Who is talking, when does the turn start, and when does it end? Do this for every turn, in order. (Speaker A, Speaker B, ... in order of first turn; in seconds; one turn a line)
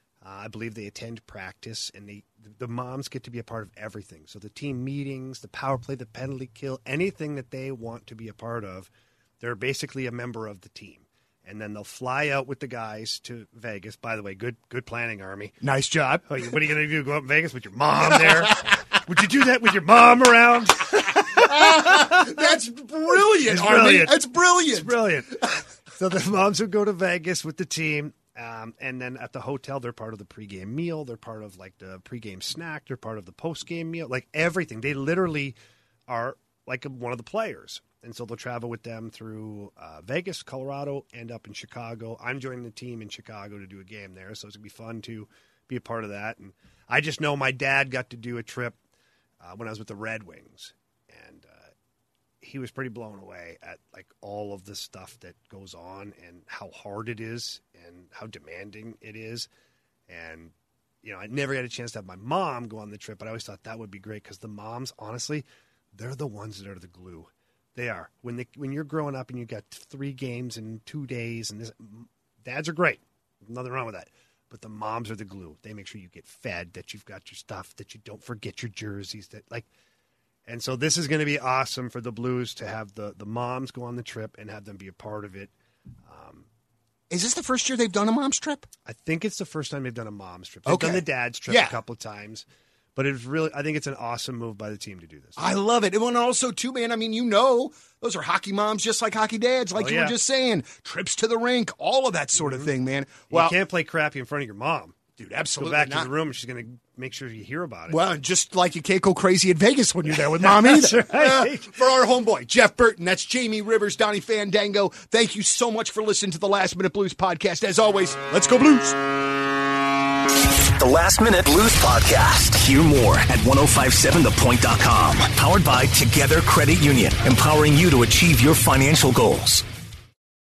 Speaker A: 0.2-15.6
Speaker B: 15.6-16.4
Speaker A: 16.2-22.4
Speaker B: 18.1-18.7
Speaker B: 21.1-25.5
Speaker A: 23.4-35.5
Speaker A: 36.1-48.8
Speaker A: 49.4-51.7
Speaker A: 52.4-59.5
Speaker A: 60.1-79.7
Speaker A: 80.5-85.5
Speaker A: 86.1-86.5
Speaker B: 87.1-88.7
Speaker A: 88.8-92.4
Speaker B: 90.7-91.8
Speaker A: 93.0-95.4
Speaker B: 95.4-103.5
Speaker A: 99.8-100.2
Speaker A: 102.4-102.7
Speaker A: 103.3-105.0
Speaker B: 105.2-106.1
Speaker A: 105.6-108.0
Speaker B: 107.9-119.0
Speaker A: 110.3-111.8
Speaker C: 120.8-129.6